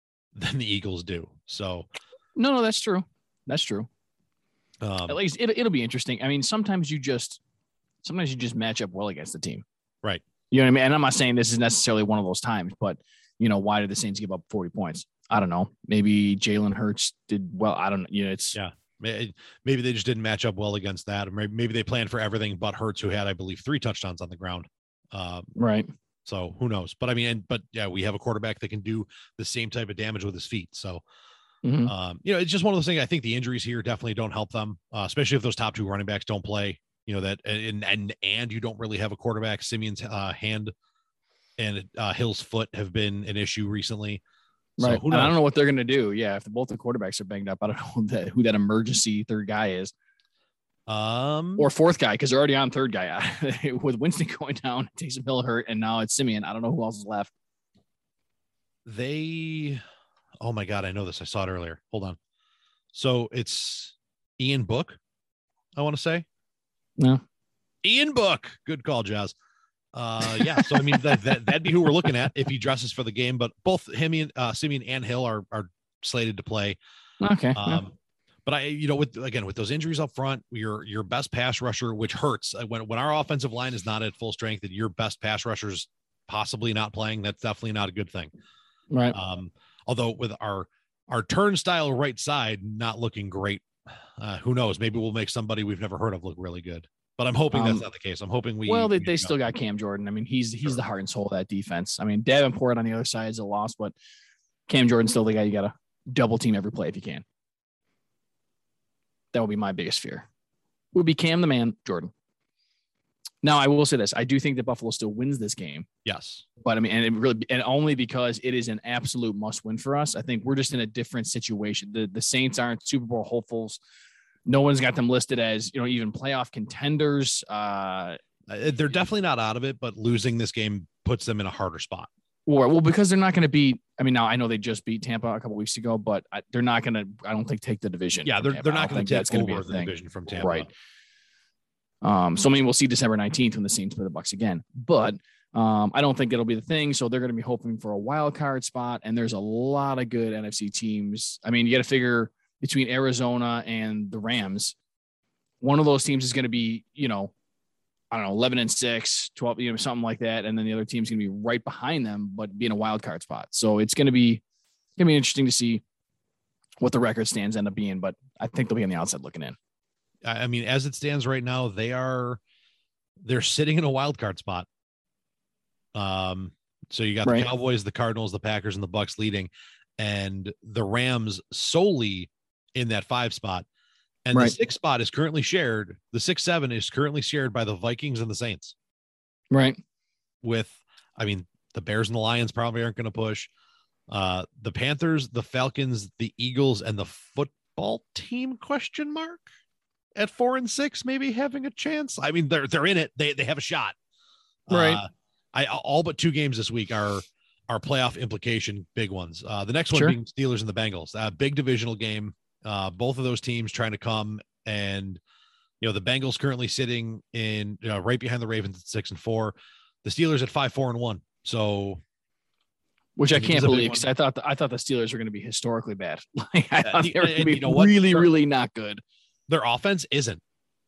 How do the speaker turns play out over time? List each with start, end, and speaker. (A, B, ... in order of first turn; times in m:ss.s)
0:00.4-0:01.9 A
0:02.4-0:03.9 B
0:04.8-0:05.2 A
0:05.1-0:07.4 B
0:08.0-0:09.6 B
0:10.5-0:18.6 B
0:18.6-0:25.5 A
0:25.6-0:25.9 B
0:26.2-0:31.0 A
0:31.6-0:31.9 B
0:31.9-0:40.7 A
0:41.6-0:44.2 A
0:44.8-0:49.9 B
0:44.8-0:45.4 A
0:50.9-0:51.7 A
0:51.6-0:57.3 B
0:58.8-0:59.8 A
1:00.4-1:02.2 A
1:02.9-1:05.0 A
1:05.8-1:06.3 A
1:07.8-1:09.4 A
1:09.9-1:16.8 A
1:10.4-1:11.0 B
1:17.2-1:17.8 B
1:17.6-1:28.3 A
1:28.9-1:29.2 B
1:29.1-1:39.3 A
1:37.5-1:37.9 B
1:38.7-1:43.9 B
1:44.7-1:47.2 B
1:49.3-1:50.3 B
1:50.9-1:52.1 B
1:53.4-1:55.9 B
1:56.0-1:56.4 A
1:56.6-2:03.8 B
2:04.5-2:08.2 B
2:08.5-2:12.1 A
2:12.5-2:20.7 B
2:18.2-2:20.7 A
2:22.0-2:34.8 B
2:35.6-2:37.3 B
2:38.1-2:44.4 B
2:45.0-2:45.8 B
2:46.8-2:49.6 B
2:50.2-2:52.4 A
2:53.2-2:54.7 A
2:55.9-3:03.7 A
3:04.2-3:08.8 A
3:09.5-3:09.8 B
3:10.4-3:13.5 A
3:14.1-3:19.4 A
3:20.2-3:24.0 A
3:24.7-3:35.2 A
3:24.7-3:25.0 B
3:35.8-3:42.0 A
3:43.2-3:49.0 B
3:43.3-3:44.0 A
3:46.8-3:48.3 A
3:49.5-3:50.4 A